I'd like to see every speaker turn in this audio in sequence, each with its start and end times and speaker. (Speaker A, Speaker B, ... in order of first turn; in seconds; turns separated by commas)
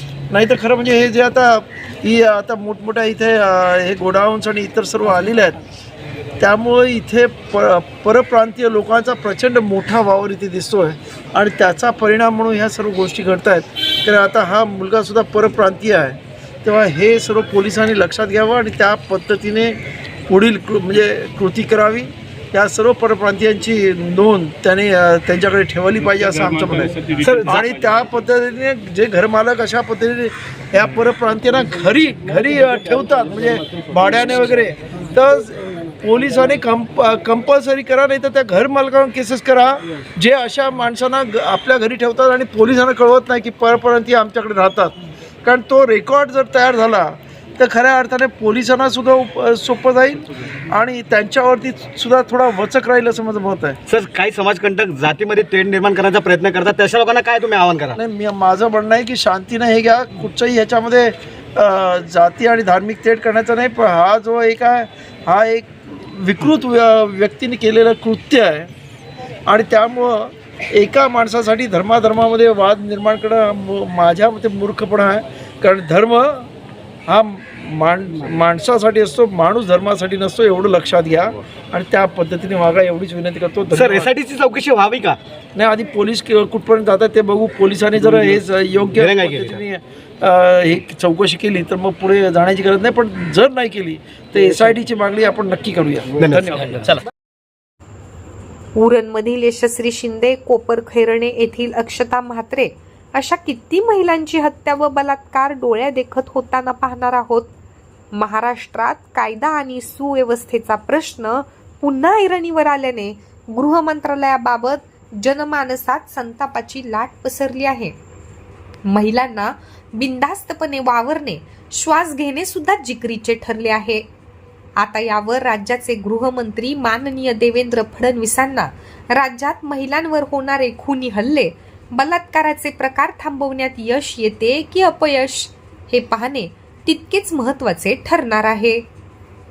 Speaker A: 0.3-5.6, Speaker A: 6.4-53.8, Speaker B: 27.2-27.6, Speaker B: 53.9-58.0, Speaker A: 58.0-68.7, Speaker A: 69.5-76.5, Speaker A: 77.1-84.1, Speaker B: 83.7-85.2, Speaker A: 85.5-97.0, Speaker B: 89.0-89.6, Speaker B: 96.2-96.9, Speaker C: 98.8-107.5, Speaker C: 108.1-118.0, Speaker C: 118.9-124.1, Speaker C: 124.8-138.8